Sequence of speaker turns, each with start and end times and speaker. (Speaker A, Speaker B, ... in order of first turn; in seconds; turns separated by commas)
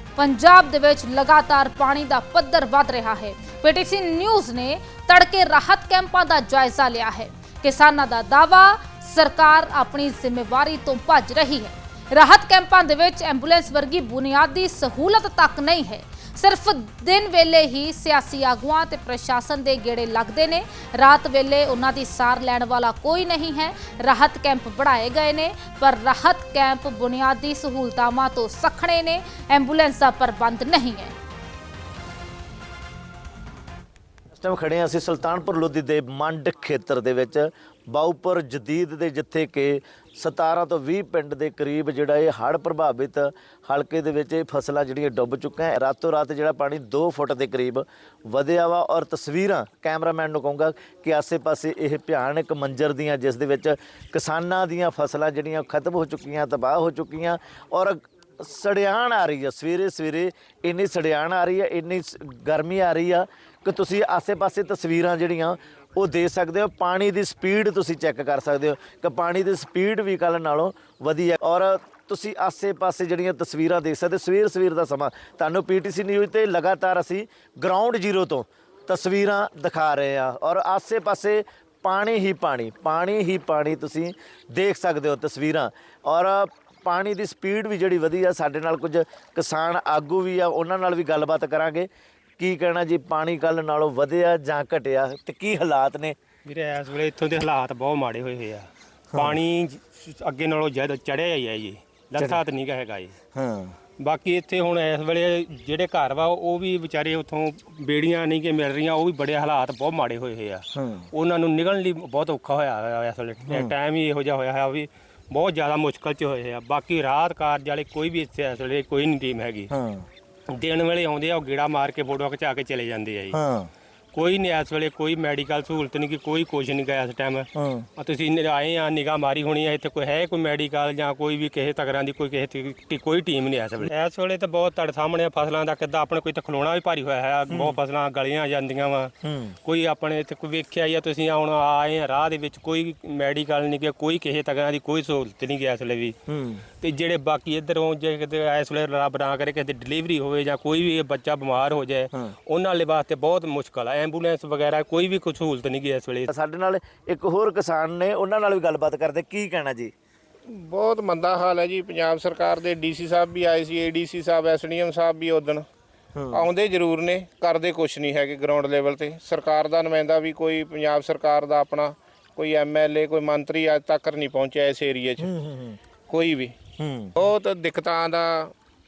Speaker A: 0.2-31.1, Speaker B: 34.3-91.9, Speaker B: 92.4-96.1, Speaker C: 96.4-103.2, Speaker B: 99.1-99.4, Speaker B: 103.3-103.8, Speaker C: 104.0-119.7, Speaker B: 110.7-111.1, Speaker B: 113.5-113.7, Speaker B: 119.7-120.1, Speaker C: 120.5-123.4, Speaker B: 123.3-123.7, Speaker C: 124.1-139.1, Speaker B: 127.5-127.9, Speaker B: 137.5-137.8, Speaker B: 139.2-139.6, Speaker C: 139.6-146.2, Speaker B: 146.3-146.6, Speaker C: 146.8-156.3, Speaker B: 156.3-159.9, Speaker D: 160.5-165.7, Speaker B: 166.1-166.5, Speaker D: 166.3-175.3, Speaker B: 175.2-175.8, Speaker D: 176.1-176.5, Speaker B: 176.8-177.1, Speaker D: 177.2-178.5